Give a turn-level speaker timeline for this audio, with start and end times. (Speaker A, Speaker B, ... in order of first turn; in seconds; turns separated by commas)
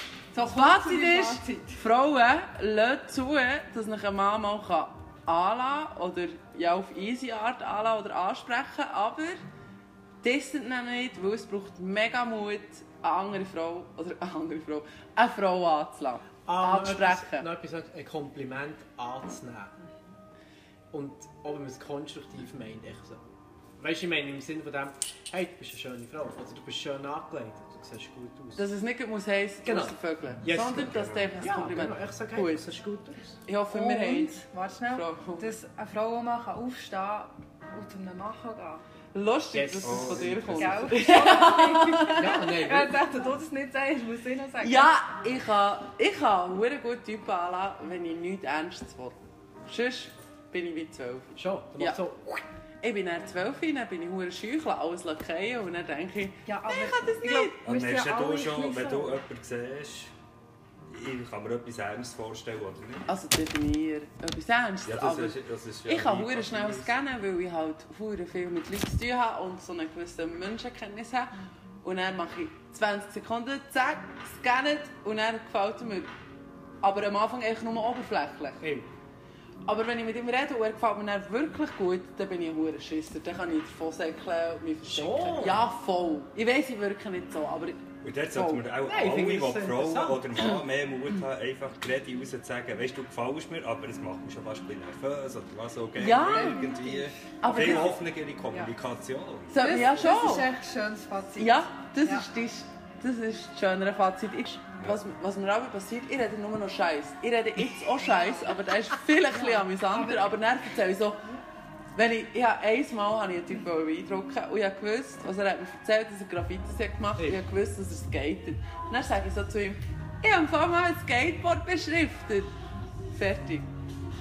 Speaker A: 0.3-1.8, Speaker B: 0.4-9.4, Speaker B: 10.2-17.5, Speaker C: 16.5-19.8, Speaker C: 20.9-23.2, Speaker C: 23.8-28.6, Speaker B: 28.6-32.6, Speaker C: 29.6-33.4, Speaker D: 30.8-31.3, Speaker B: 33.5-35.5, Speaker A: 33.7-38.8, Speaker B: 39.1-42.4, Speaker C: 39.5-40.7, Speaker D: 39.8-40.9, Speaker A: 40.6-44.9, Speaker C: 42.1-43.0, Speaker B: 44.6-52.0, Speaker C: 51.4-52.4, Speaker B: 52.8-57.6, Speaker A: 56.5-59.2, Speaker D: 57.6-60.1, Speaker D: 60.9-63.1, Speaker B: 63.1-65.4, Speaker D: 64.9-66.9, Speaker B: 65.9-76.1, Speaker B: 76.8-78.6, Speaker C: 78.6-78.9, Speaker B: 79.7-88.8, Speaker C: 84.8-85.7, Speaker D: 88.0-100.1, Speaker C: 88.8-90.4, Speaker B: 96.0-96.7, Speaker A: 96.2-97.9, Speaker B: 97.4-98.0, Speaker B: 99.5-100.5, Speaker A: 99.6-102.3, Speaker B: 101.4-111.2, Speaker A: 108.0-108.6, Speaker A: 109.3-110.4, Speaker B: 112.0-122.5, Speaker B: 123.1-123.7